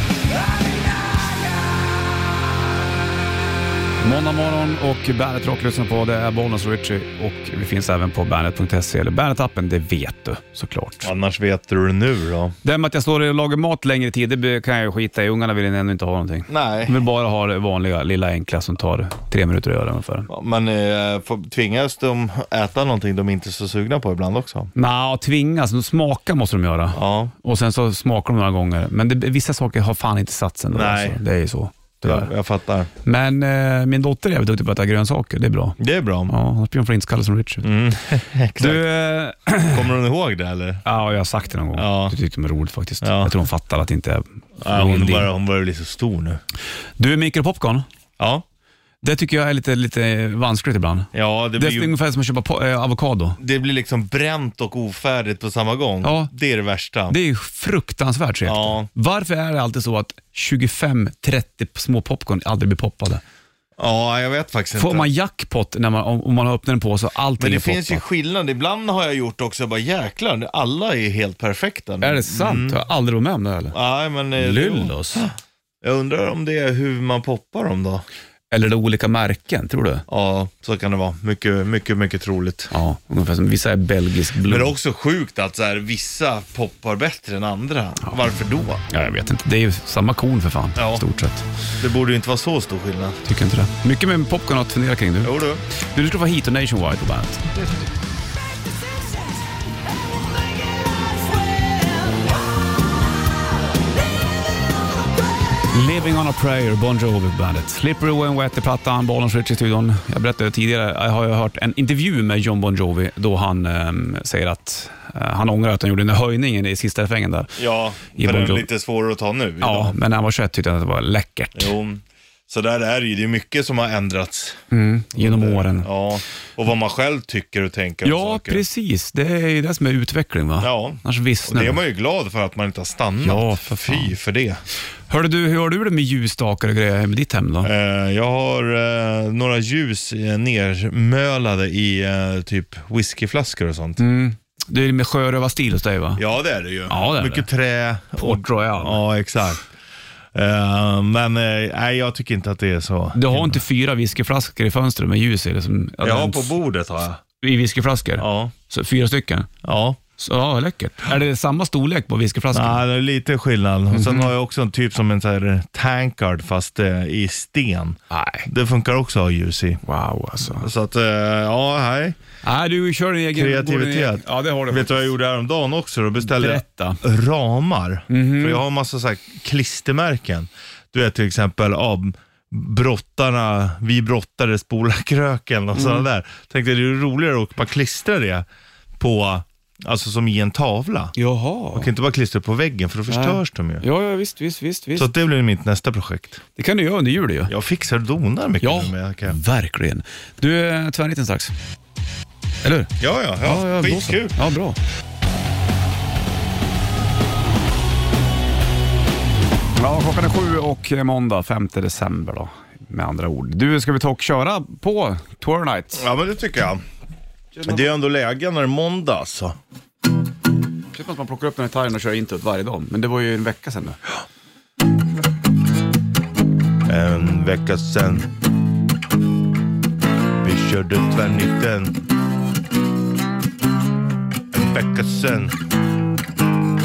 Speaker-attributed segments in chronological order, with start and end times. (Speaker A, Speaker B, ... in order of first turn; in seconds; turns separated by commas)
Speaker A: 4.0-11.1, Speaker B: 11.0-12.6, Speaker A: 12.6-20.3, Speaker B: 16.5-17.0, Speaker B: 20.3-24.7, Speaker A: 24.8-32.3, Speaker B: 26.9-27.3, Speaker B: 30.7-31.2, Speaker B: 32.0-32.9, Speaker A: 33.0-37.7, Speaker B: 35.8-36.3, Speaker B: 37.6-38.9, Speaker A: 38.6-39.9, Speaker B: 39.7-40.8, Speaker A: 40.8-45.3, Speaker B: 41.8-42.1, Speaker B: 43.0-43.3, Speaker B: 44.6-46.4, Speaker A: 47.0-47.9, Speaker B: 48.2-48.4, Speaker A: 49.0-53.4, Speaker B: 51.1-51.9, Speaker B: 53.4-57.2, Speaker A: 56.0-56.3, Speaker A: 57.1-63.2, Speaker B: 58.4-58.9, Speaker B: 63.8-65.1, Speaker A: 64.8-68.0, Speaker B: 67.4-72.8, Speaker A: 72.0-73.8, Speaker B: 73.7-78.0, Speaker A: 74.4-75.2, Speaker A: 78.5-80.0, Speaker B: 80.1-82.7, Speaker A: 82.7-84.7, Speaker B: 84.4-88.8, Speaker A: 88.9-91.5, Speaker B: 90.8-91.0, Speaker B: 91.8-93.2, Speaker A: 93.2-95.4, Speaker B: 95.2-95.6, Speaker A: 95.9-97.7, Speaker A: 105.7-117.6, Speaker B: 117.6-120.0, Speaker A: 118.2-118.7, Speaker A: 119.6-121.7, Speaker B: 121.5-124.6, Speaker A: 124.7-125.9, Speaker B: 125.1-128.6, Speaker A: 128.0-131.8, Speaker B: 130.6-134.6, Speaker A: 133.2-134.1, Speaker A: 135.1-137.7, Speaker B: 137.6-144.0, Speaker A: 144.0-146.2, Speaker B: 146.2-149.7, Speaker A: 146.9-147.5, Speaker A: 148.2-149.0, Speaker B: 150.3-153.6, Speaker A: 153.1-156.6, Speaker B: 156.0-157.2, Speaker A: 157.4-159.5, Speaker B: 158.2-158.5, Speaker B: 159.6-160.0, Speaker A: 160.2-162.8, Speaker B: 162.5-169.8, Speaker A: 163.9-164.3, Speaker A: 168.1-168.5, Speaker A: 169.8-170.7, Speaker B: 170.5-172.2, Speaker A: 172.4-175.1, Speaker B: 173.3-188.4, Speaker A: 176.2-177.0, Speaker A: 178.1-178.6, Speaker A: 185.8-186.1, Speaker B: 189.0-191.1, Speaker A: 191.2-191.9, Speaker B: 191.7-193.8, Speaker A: 193.1-195.1, Speaker B: 194.9-196.4, Speaker A: 196.6-197.5, Speaker B: 197.5-199.4, Speaker A: 198.6-201.5, Speaker A: 202.6-202.9, Speaker B: 203.0-204.4, Speaker A: 203.4-204.8, Speaker A: 209.8-216.1, Speaker B: 215.9-216.8, Speaker A: 217.6-217.9, Speaker B: 217.6-219.6, Speaker A: 220.9-224.0, Speaker B: 226.8-228.3, Speaker B: 230.4-231.9, Speaker B: 234.5-235.6